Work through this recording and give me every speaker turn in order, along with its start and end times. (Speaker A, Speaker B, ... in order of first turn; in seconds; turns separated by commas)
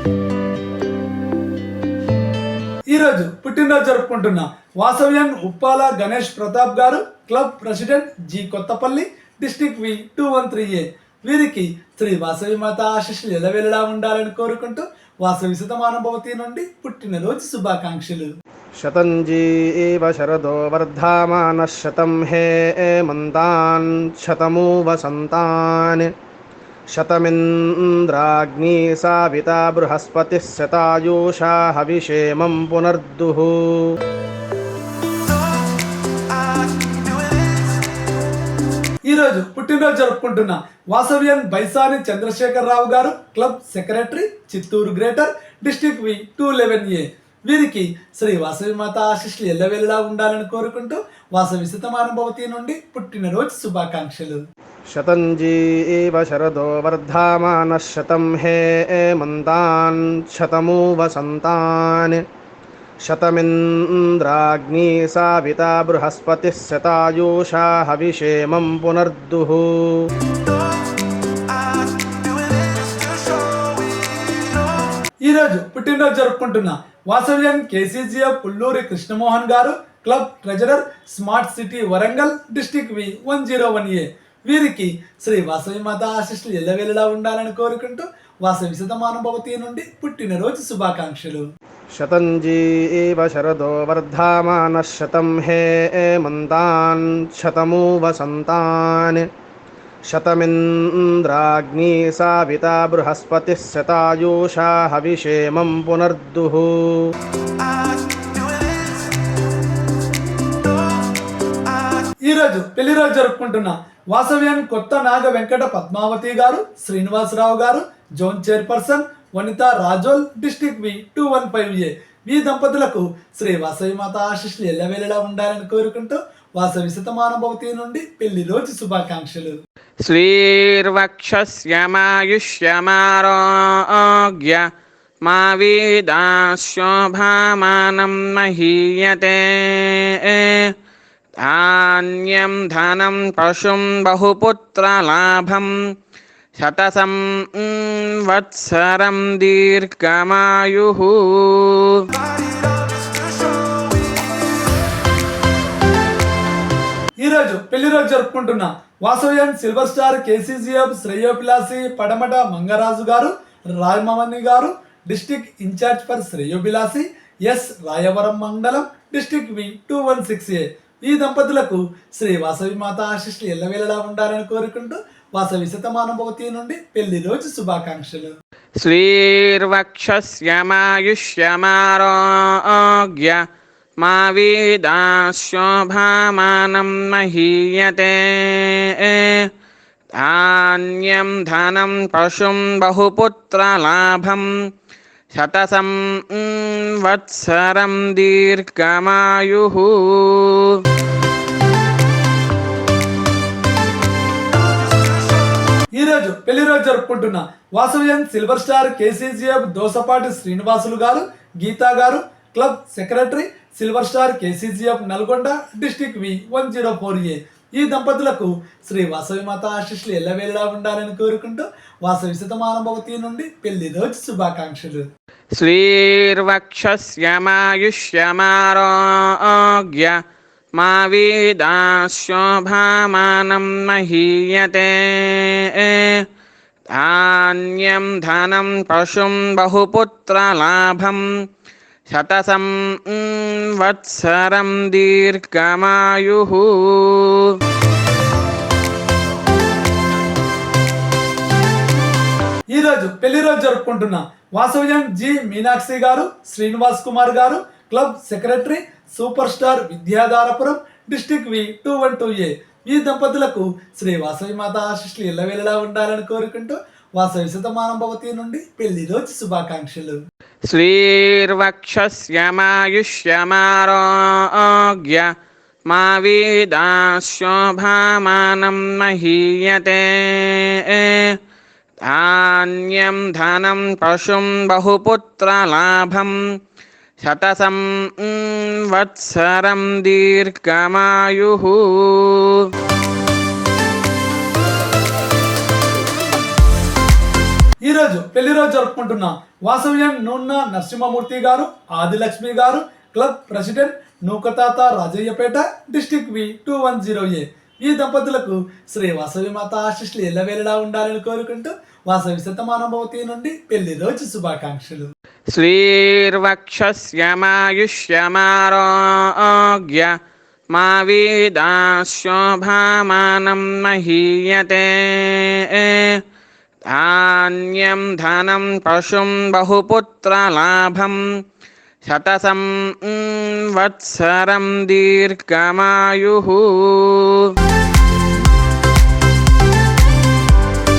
Speaker A: 2.9-18.3, Speaker B: 18.8-26.1, Speaker B: 26.9-33.9, Speaker A: 39.1-54.4, Speaker B: 54.9-62.2, Speaker B: 63.0-70.0, Speaker A: 75.3-91.5, Speaker B: 92.0-99.2, Speaker B: 100.1-107.1, Speaker A: 112.3-129.6, Speaker C: 130.1-134.7, Speaker C: 135.2-140.7, Speaker C: 141.4-145.8, Speaker C: 146.6-152.1, Speaker A: 157.2-178.3, Speaker C: 178.8-183.4, Speaker C: 184.0-189.5, Speaker C: 190.2-194.5, Speaker C: 195.3-200.8, Speaker A: 206.0-225.1, Speaker C: 225.6-230.2, Speaker C: 230.8-236.2, Speaker C: 236.9-241.3, Speaker C: 242.1-247.6, Speaker A: 252.7-270.2, Speaker C: 270.7-275.3, Speaker C: 275.9-281.4, Speaker C: 282.1-286.4, Speaker C: 287.2-292.7, Speaker A: 297.9-315.1, Speaker C: 315.5-320.1, Speaker C: 320.7-326.2, Speaker C: 326.9-331.2, Speaker C: 332.1-337.5